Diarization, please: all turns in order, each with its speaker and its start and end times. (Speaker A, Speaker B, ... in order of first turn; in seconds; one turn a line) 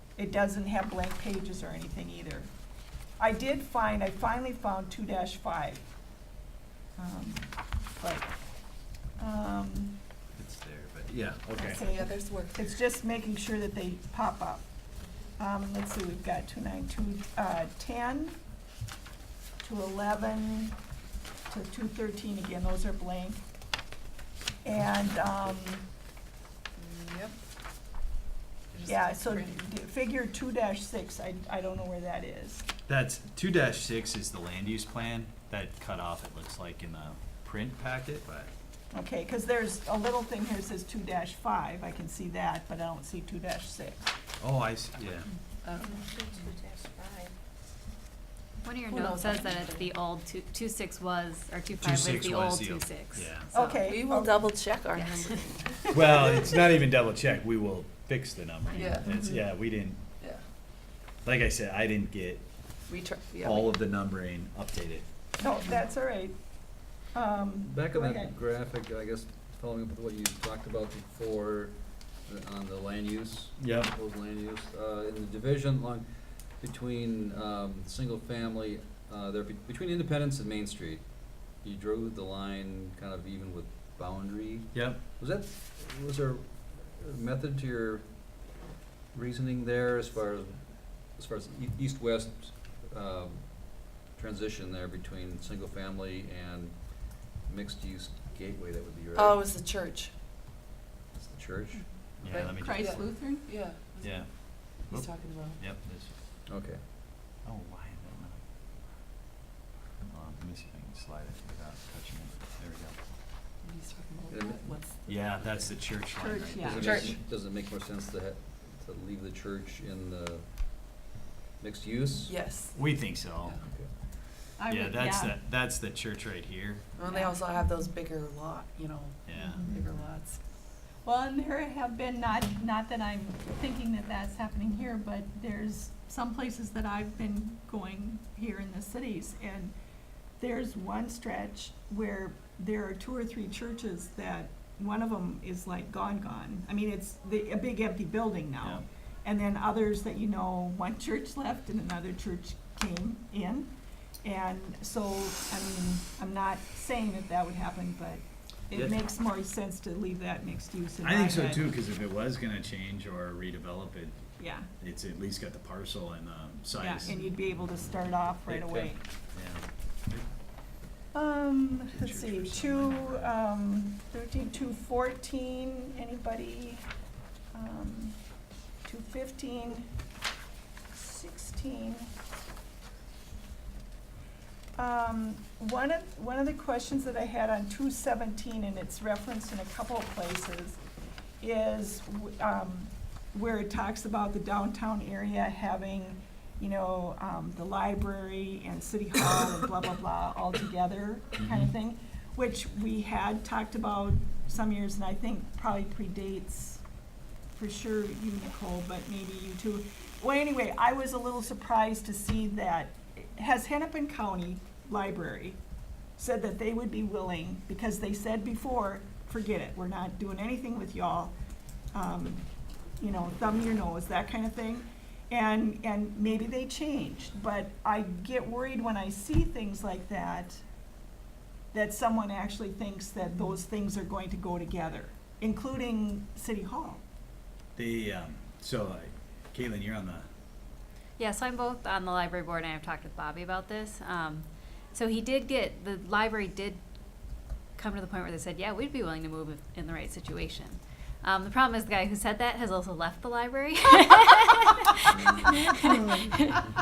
Speaker A: 0.2-2.5
Speaker A: 3.2-5.8
Speaker A: 7.0-8.3
Speaker A: 9.2-10.0
Speaker B: 10.4-11.8
Speaker A: 11.5-14.6
Speaker C: 11.8-12.6
Speaker A: 15.4-18.4
Speaker A: 19.6-20.8
Speaker A: 21.5-23.4
Speaker A: 24.6-25.9
Speaker C: 26.8-27.4
Speaker C: 28.8-29.6
Speaker A: 28.9-32.7
Speaker B: 32.9-38.5
Speaker A: 38.9-44.1
Speaker B: 44.4-45.3
Speaker C: 45.6-47.3
Speaker D: 48.6-53.8
Speaker C: 48.9-49.9
Speaker B: 51.8-53.5
Speaker A: 53.5-54.5
Speaker C: 53.8-56.2
Speaker D: 54.9-55.5
Speaker B: 55.9-60.0
Speaker C: 58.7-59.5
Speaker B: 61.2-62.5
Speaker C: 62.9-63.8
Speaker B: 63.4-65.0
Speaker A: 65.4-66.4
Speaker A: 67.1-68.3
Speaker E: 67.6-88.4
Speaker B: 73.6-73.9
Speaker B: 84.7-85.0
Speaker E: 89.1-99.4
Speaker C: 99.1-100.1
Speaker E: 101.1-102.6
Speaker B: 102.2-103.4
Speaker C: 102.2-105.6
Speaker A: 102.6-103.5
Speaker B: 104.0-106.1
Speaker E: 106.5-106.8
Speaker B: 107.4-108.4
Speaker B: 110.1-113.0
Speaker C: 113.6-115.0
Speaker E: 114.3-115.7
Speaker B: 115.1-117.1
Speaker A: 116.2-117.0
Speaker E: 116.6-120.5
Speaker C: 116.8-117.2
Speaker E: 121.6-122.3
Speaker C: 122.2-122.8
Speaker B: 122.7-123.6
Speaker E: 123.6-123.9
Speaker A: 124.6-125.4
Speaker B: 124.7-126.8
Speaker C: 127.0-130.4
Speaker A: 127.1-127.3
Speaker B: 129.3-129.8
Speaker A: 131.0-139.7
Speaker A: 140.4-153.7
Speaker A: 154.2-161.7
Speaker B: 158.7-159.0
Speaker B: 161.0-164.2
Speaker A: 164.4-164.7
Speaker B: 164.8-167.2
Speaker A: 166.8-169.0
Speaker B: 168.5-170.3
Speaker A: 171.1-176.8
Speaker B: 171.9-173.4
Speaker A: 177.5-178.2
Speaker A: 178.8-179.9
Speaker A: 180.9-182.1
Speaker A: 184.8-190.8
Speaker A: 191.4-206.8
Speaker B: 201.4-201.7
Speaker A: 207.6-215.6
Speaker A: 216.2-221.3
Speaker A: 221.9-222.4
Speaker A: 223.0-230.6
Speaker A: 231.7-237.0
Speaker B: 237.8-240.2
Speaker D: 241.2-246.8
Speaker D: 247.8-256.6
Speaker A: 255.4-256.4